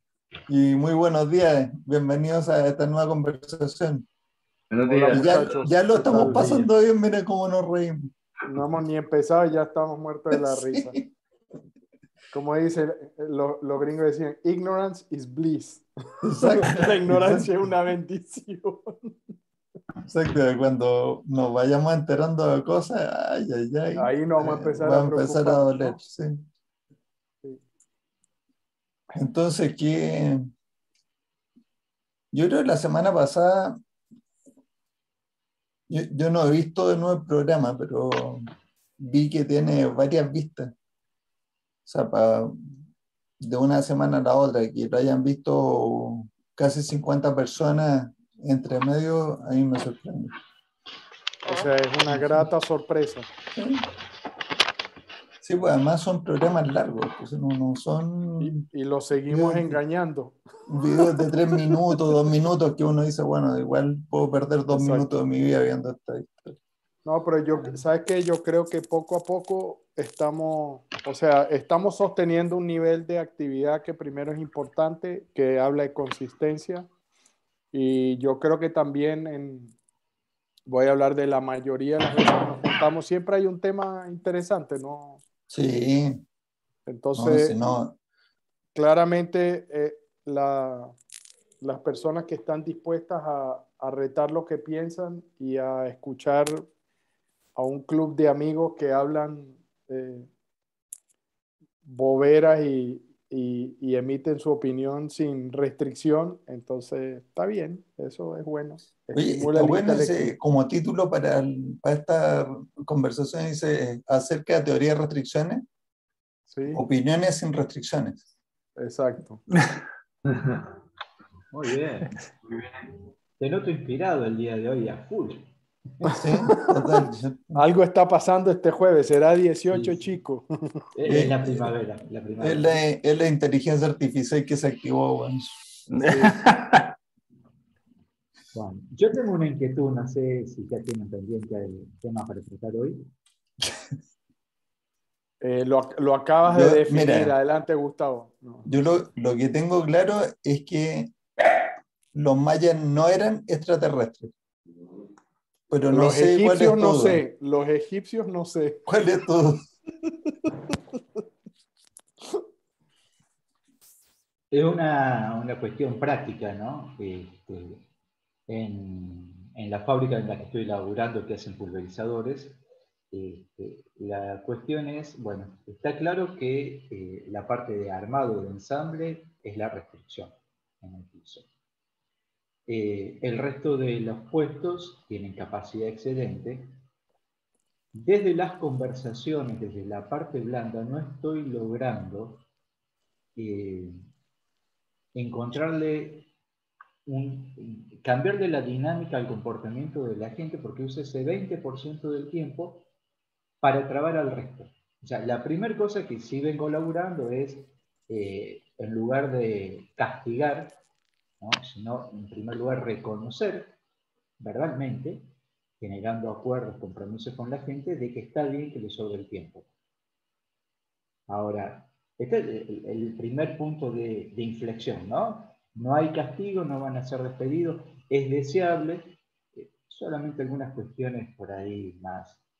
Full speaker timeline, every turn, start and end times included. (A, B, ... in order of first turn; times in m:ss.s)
0:00.5-0:04.1 A
0:04.7-0:06.6 B
0:04.8-0:06.5 C
0:05.1-0:08.1 A
0:08.5-0:11.0 C
0:10.3-0:11.1 A
0:12.3-0:15.8 C
0:16.2-0:17.5 A
0:16.4-0:19.1 C
0:20.0-0:26.4 A
0:24.0-0:26.0 C
0:29.1-0:30.5 A
0:32.3-0:33.8 A
0:35.9-0:38.5 A
0:39.0-0:40.7 A
0:41.8-0:42.6 A
0:43.4-0:50.3 A
0:51.4-0:53.3 C
0:52.1-0:52.4 A
0:53.6-0:53.8 A
0:55.4-0:58.6 A
0:58.4-1:00.4 C
0:59.3-0:59.8 A
1:00.7-1:06.6 A
1:04.7-1:05.1 C
1:07.0-1:16.9 C
1:17.7-1:19.7 C
1:20.7-1:25.2 C
1:25.5-1:26.2 A
1:26.9-1:27.6 C
1:27.1-1:28.0 A
1:28.7-1:31.0 C
1:31.6-1:36.6 C
1:37.6-1:40.3 C
1:41.8-1:50.3 C
1:49.1-1:55.6 A
1:56.5-1:56.8 C
1:56.7-1:58.2 A
1:58.8-1:59.4 C
2:00.3-2:00.6 B
2:01.5-2:02.2 D
2:02.4-2:02.9 B
2:03.4-2:06.6 D
2:06.2-2:07.6 A
2:07.6-2:10.5 C
2:09.7-2:10.1 D
2:10.9-2:12.8 D
2:11.0-2:11.7 A
2:12.4-2:15.5 A
2:16.0-2:16.9 B
2:18.5-2:23.1 D
2:25.4-2:28.7 C
2:26.4-2:27.3 A
2:28.6-2:31.1 A
2:32.1-2:34.3 A
2:35.7-2:37.2 A
2:35.9-2:38.8 C
2:38.8-2:39.7 A
2:44.5-2:47.8 D
2:48.5-2:52.6 D
2:53.1-3:01.5 D
3:02.7-3:06.8 D
3:07.9-3:12.4 D
3:13.3-3:14.0 D
3:15.1-3:16.3 D
3:17.0-3:22.9 D
3:23.6-3:30.8 D
3:31.4-3:33.8 D
3:34.4-3:39.7 D
3:41.3-3:52.4 D